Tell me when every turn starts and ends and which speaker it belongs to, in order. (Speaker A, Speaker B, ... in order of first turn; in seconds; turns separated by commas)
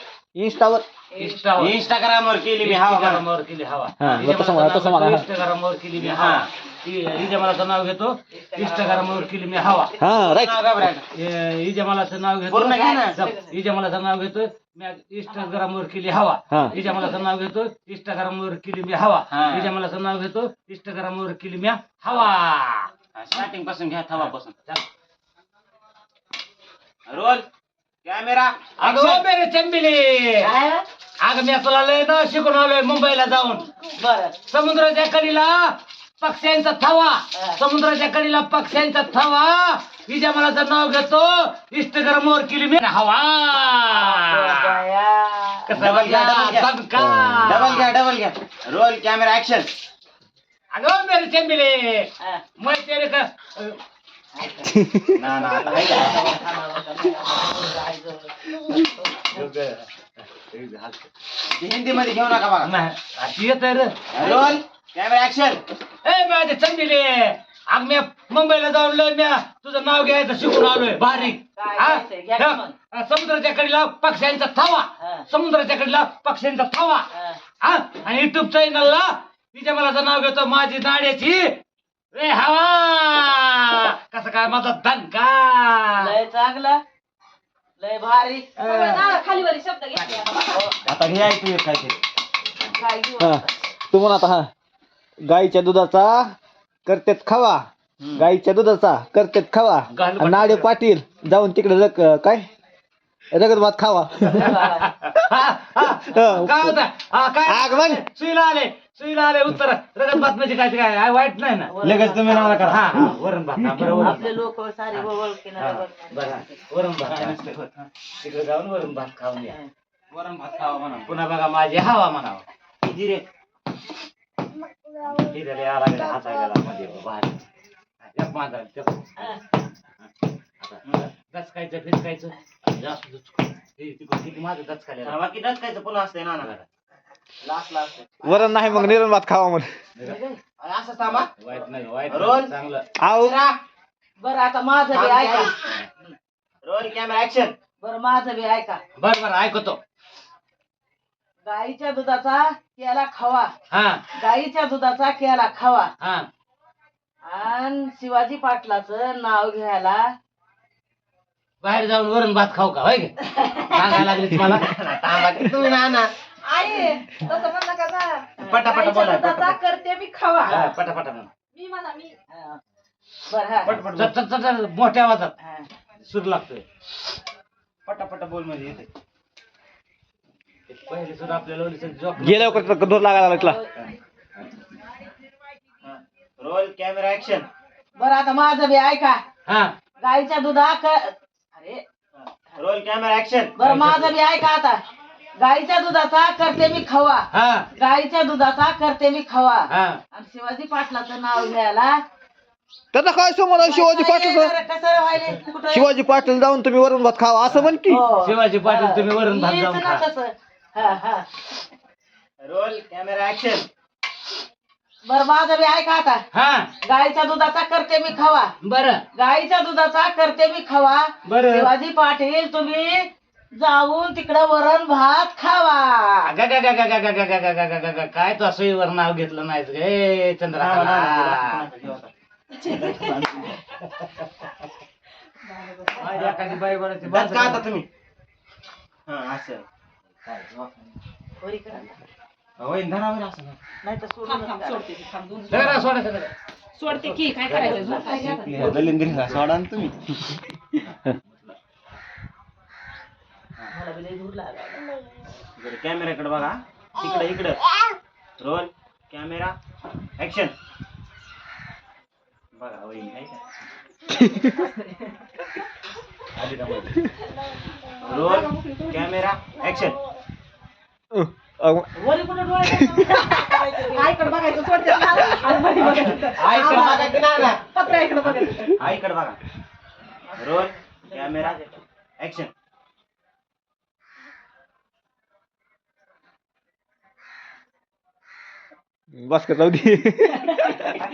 Speaker A: 0.3-0.8, Speaker B: 1.1-1.4, Speaker C: 1.1-1.9, Speaker D: 1.5-3.2, Speaker C: 2.6-9.9, Speaker A: 4.0-5.2, Speaker D: 6.0-6.5, Speaker B: 8.4-9.2, Speaker A: 10.0-10.7, Speaker D: 10.0-11.1, Speaker C: 11.1-22.9, Speaker D: 12.5-13.2, Speaker A: 16.5-16.8, Speaker D: 19.3-19.7, Speaker D: 23.1-24.5, Speaker C: 24.2-24.8, Speaker D: 27.1-27.4, Speaker D: 28.0-28.8, Speaker C: 28.8-30.5, Speaker B: 28.8-29.2, Speaker B: 30.4-30.8, Speaker C: 31.2-33.7, Speaker B: 33.8-34.4, Speaker C: 34.5-44.4, Speaker B: 37.3-37.6, Speaker B: 43.9-45.8, Speaker C: 45.7-47.9, Speaker D: 45.7-46.7, Speaker A: 47.0-47.6, Speaker D: 47.4-49.7, Speaker C: 50.7-53.8, Speaker B: 54.3-59.5, Speaker A: 54.8-55.2, Speaker D: 55.1-56.2, Speaker C: 59.3-61.0, Speaker D: 61.5-62.7, Speaker C: 62.6-64.0, Speaker D: 64.1-65.6, Speaker B: 64.2-64.6, Speaker C: 66.0-77.1, Speaker B: 71.1-72.7, Speaker B: 75.0-75.2, Speaker B: 77.1-77.4, Speaker C: 77.6-81.6, Speaker C: 82.1-86.1, Speaker B: 86.0-86.8, Speaker B: 87.8-89.1, Speaker C: 88.6-89.1, Speaker E: 88.6-90.6, Speaker B: 90.4-90.8, Speaker D: 90.8-92.0, Speaker B: 92.7-93.5, Speaker A: 93.2-94.5, Speaker A: 95.2-96.3, Speaker A: 96.8-102.5, Speaker D: 98.0-98.3, Speaker C: 99.9-100.7, Speaker A: 103.3-104.6, Speaker B: 104.2-104.9, Speaker C: 104.3-111.7, Speaker A: 106.0-106.8, Speaker A: 107.4-108.0, Speaker B: 111.7-112.9, Speaker D: 111.8-114.2, Speaker C: 112.6-114.3, Speaker B: 114.0-116.6, Speaker C: 114.9-117.4, Speaker D: 117.0-117.8, Speaker C: 118.2-119.5, Speaker D: 120.1-121.2, Speaker C: 121.0-122.4, Speaker D: 122.8-123.2, Speaker C: 125.0-127.5, Speaker C: 128.0-129.3, Speaker C: 130.6-135.2, Speaker D: 135.0-136.5, Speaker C: 136.4-136.6, Speaker D: 137.4-138.5, Speaker A: 138.2-139.7, Speaker B: 138.6-139.0, Speaker C: 139.9-140.2, Speaker B: 140.0-140.3, Speaker D: 140.6-141.3, Speaker C: 141.4-142.8, Speaker D: 142.1-142.5, Speaker A: 143.0-143.3, Speaker D: 143.2-143.6, Speaker B: 144.2-146.1, Speaker D: 144.9-145.6, Speaker D: 146.6-147.6, Speaker B: 147.8-148.8, Speaker C: 149.0-149.8, Speaker B: 151.4-153.5, Speaker C: 153.7-154.0, Speaker B: 154.2-155.9, Speaker C: 156.0-156.3, Speaker B: 157.2-160.1, Speaker C: 161.6-164.8, Speaker B: 163.3-164.0, Speaker D: 164.4-166.1, Speaker B: 166.7-167.4, Speaker E: 167.5-168.2, Speaker B: 168.4-168.8, Speaker D: 168.4-169.6, Speaker E: 169.7-170.4, Speaker C: 170.5-171.3, Speaker E: 171.5-172.1, Speaker B: 172.3-172.6, Speaker B: 173.3-173.8, Speaker D: 173.6-174.1, Speaker C: 173.7-175.3, Speaker B: 175.4-175.7, Speaker C: 176.0-176.7, Speaker D: 177.8-178.9, Speaker C: 180.7-183.1, Speaker A: 182.2-183.6, Speaker B: 183.3-183.6, Speaker D: 185.8-187.5, Speaker B: 187.9-189.2, Speaker C: 189.5-189.7, Speaker B: 190.0-191.8, Speaker D: 192.2-193.6, Speaker B: 193.6-194.8, Speaker C: 193.6-194.2, Speaker B: 195.4-202.0, Speaker C: 197.3-197.7, Speaker C: 199.7-200.0, Speaker A: 202.9-204.5, Speaker B: 203.6-206.0, Speaker A: 205.7-208.1, Speaker C: 207.5-210.0, Speaker B: 207.8-211.3, Speaker D: 212.4-213.7, Speaker B: 215.1-216.2, Speaker C: 216.3-216.7, Speaker B: 216.8-218.5, Speaker C: 218.6-219.0, Speaker B: 219.1-226.3, Speaker C: 221.2-221.7, Speaker C: 226.2-231.7, Speaker D: 230.5-233.6, Speaker C: 233.8-234.3, Speaker C: 235.9-237.7, Speaker D: 236.0-237.9, Speaker D: 239.1-239.6, Speaker D: 240.2-240.8, Speaker B: 241.4-242.0, Speaker D: 242.6-243.6, Speaker B: 243.8-244.9, Speaker E: 244.2-245.6, Speaker C: 245.5-246.3, Speaker E: 246.8-248.4, Speaker C: 246.8-249.5, Speaker B: 247.6-248.8, Speaker D: 248.0-250.4, Speaker C: 251.3-251.5, Speaker B: 253.7-254.9, Speaker D: 255.6-257.6, Speaker D: 258.4-259.6, Speaker D: 260.2-260.5, Speaker D: 262.5-263.4, Speaker C: 266.3-267.1, Speaker D: 268.0-270.0, Speaker A: 271.1-271.9, Speaker B: 272.0-277.4, Speaker A: 272.6-273.2, Speaker D: 275.7-277.6, Speaker D: 278.8-279.4, Speaker D: 280.4-281.6, Speaker B: 281.1-281.7, Speaker D: 282.2-282.5, Speaker A: 289.1-291.0